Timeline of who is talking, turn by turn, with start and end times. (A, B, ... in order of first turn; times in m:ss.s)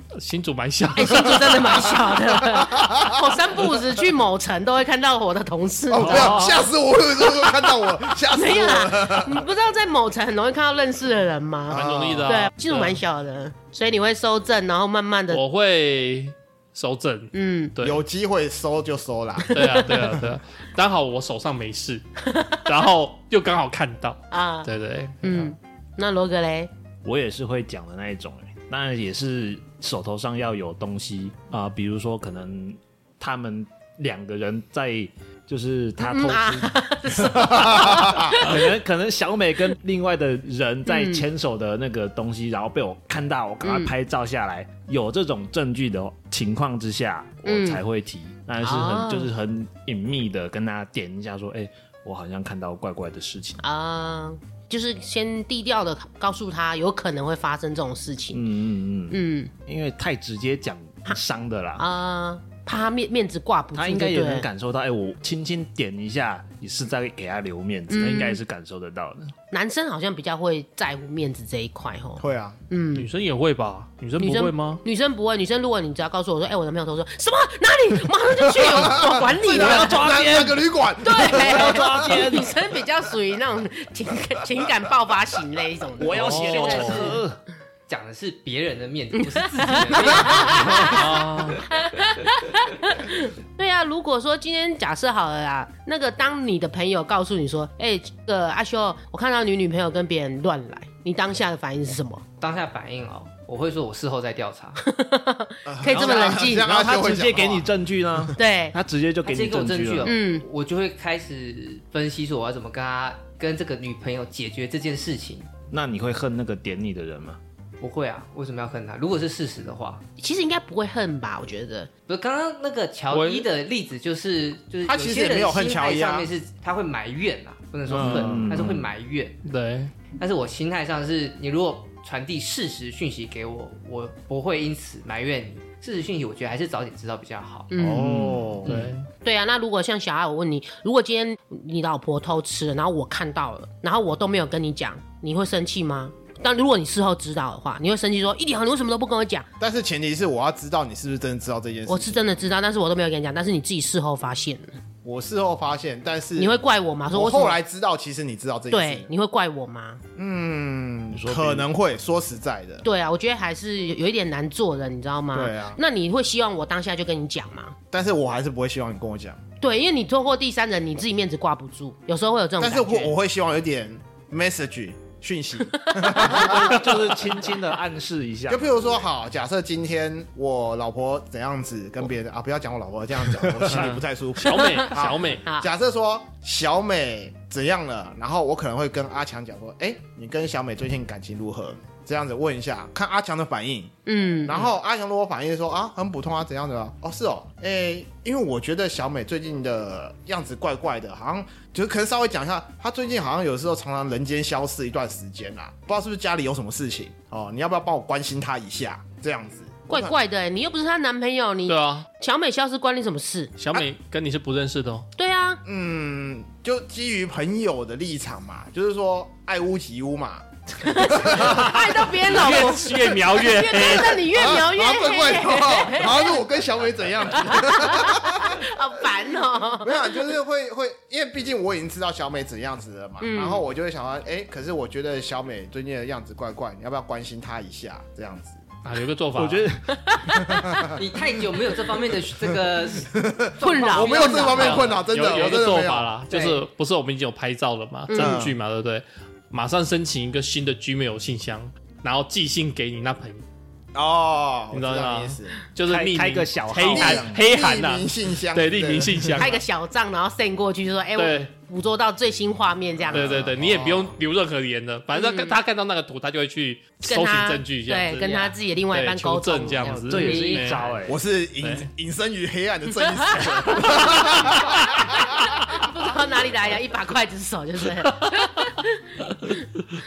0:00.1-0:01.7 A
0:00.9-0:06.6 B
0:01.6-0:03.3 C
0:05.9-0:09.4 C
0:06.0-0:06.6 D
0:08.3-0:15.4 B
0:11.7-0:12.3 C
0:11.7-0:13.0 A
0:15.3-0:18.0 A
0:17.3-0:17.7 B
0:17.8-0:20.3 C
0:19.5-0:22.0 A
0:22.2-0:22.6 B
0:22.6-0:25.5 A
0:24.3-0:24.7 B
0:25.2-0:26.7 B
0:27.0-0:36.7 D
0:36.0-0:38.6 B
0:37.2-0:38.4 C
0:37.9-0:53.6 D
0:40.9-0:41.2 B
0:43.6-0:43.9 B
0:47.4-0:47.8 B
0:48.6-0:49.3 B
0:53.6-0:58.4 B
0:58.3-1:01.8 D
0:59.1-0:59.5 B
1:01.8-1:04.4 B
1:03.7-1:09.3 D
1:07.9-1:08.4 B
1:09.5-1:13.1 B
1:12.2-1:12.6 C
1:12.9-1:14.8 A
1:14.2-1:20.1 B
1:18.4-1:22.4 C
1:19.5-1:20.6 D
1:21.0-1:27.1 B
1:21.2-1:22.5 D
1:26.0-1:27.4 D
1:26.1-1:27.2 E
1:26.1-1:27.1 A
1:27.9-1:31.6 E
1:29.3-1:42.2 B
1:30.4-1:31.6 A
1:42.4-1:44.8 E
1:44.8-1:46.7 B
1:45.6-1:48.3 C
1:45.9-1:50.1 D
1:48.4-1:48.8 B
1:49.2-1:55.5 E
1:50.0-1:50.4 B
1:55.7-1:57.4 D
1:57.8-2:00.0 E
2:00.2-2:01.9 B
2:02.1-2:09.4 E
2:03.1-2:03.5 A
2:04.8-2:06.3 C
2:07.9-2:08.8 D
2:08.0-2:08.4 A
2:09.4-2:09.9 A
2:10.1-2:17.7 E
2:17.7-2:18.2 B
2:17.8-2:18.8 D
2:17.8-2:18.7 C
2:18.6-2:19.1 A
2:19.2-2:29.5 B
2:29.6-2:32.2 C
2:31.9-2:34.8 B
2:35.0-2:36.5 C
2:36.4-2:37.6 B
2:37.1-2:39.1 C
2:38.7-2:40.0 B
2:40.2-2:42.8 C
2:41.1-2:41.7 D
2:42.8-2:47.8 B
2:45.3-2:45.8 C
2:47.9-2:49.4 C
2:49.6-2:53.1 B
2:52.6-2:57.0 C
2:55.8-2:56.4 B
2:56.1-2:59.0 D
2:58.5-3:13.9 C
3:03.7-3:05.4 A
3:04.4-3:04.9 B
3:14.0-3:14.7 B
3:14.4-3:30.2 C
3:29.9-3:33.5 B
3:31.7-3:32.1 A
3:33.6-3:35.1 A
3:35.2-3:35.6 B
3:35.6-3:41.9 C
3:40.8-3:46.4 B
3:42.1-3:44.3 A
3:44.3-3:48.7 C
3:47.3-3:50.2 B
3:49.8-3:58.6 C
3:53.2-3:53.6 B
3:58.8-3:59.7 A
3:59.3-3:59.9 D
3:59.9-4:01.0 B
4:00.3-4:01.0 C
4:00.9-4:05.5 E
4:03.1-4:06.2 C
4:03.6-4:04.9 B
4:04.5-4:13.4 A
4:06.3-4:06.6 E
4:08.1-4:08.4 B
4:08.2-4:08.6 C
4:13.9-4:15.6 C
4:14.7-4:19.6 A
4:15.8-4:17.4 D
4:16.8-4:19.5 C
4:19.4-4:23.4 B
4:21.2-4:21.5 A
4:23.1-4:24.2 C
4:23.1-4:30.9 A
4:25.1-4:25.5 B
4:27.0-4:30.3 B
4:29.8-4:31.2 D
4:30.1-4:31.0 E
4:31.0-4:35.7 C
4:31.6-4:31.9 A
4:33.0-4:39.6 B